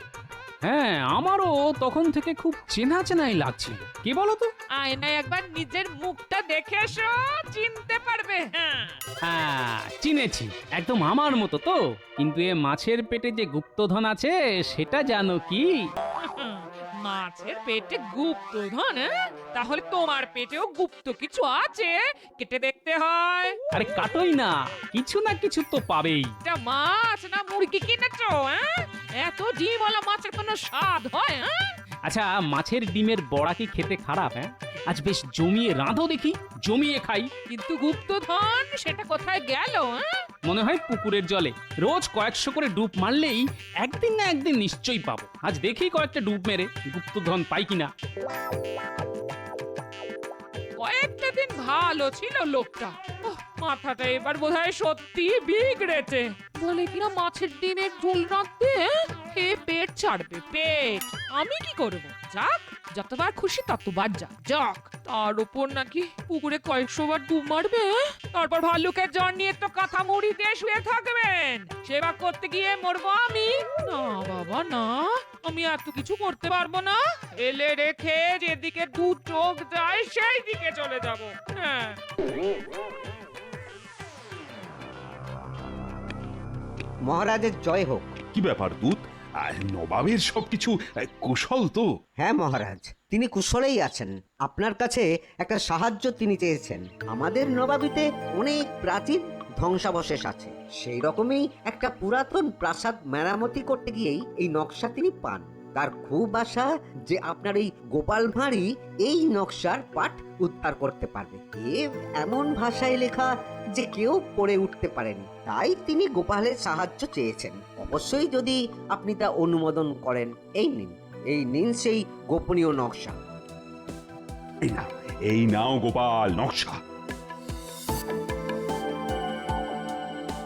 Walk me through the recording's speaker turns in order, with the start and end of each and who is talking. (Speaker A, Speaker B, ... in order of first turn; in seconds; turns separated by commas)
Speaker A: 0.6-4.5, Speaker B: 4.8-9.0, Speaker A: 9.3-15.7, Speaker B: 16.4-23.6, Speaker A: 23.7-26.3, Speaker B: 26.4-28.6, Speaker B: 29.2-31.5, Speaker A: 32.0-37.3, Speaker B: 37.5-40.0, Speaker A: 40.5-47.9, Speaker B: 50.8-82.0, Speaker C: 87.1-88.2, Speaker D: 88.3-91.8, Speaker C: 92.2-123.1, Speaker D: 124.7-126.8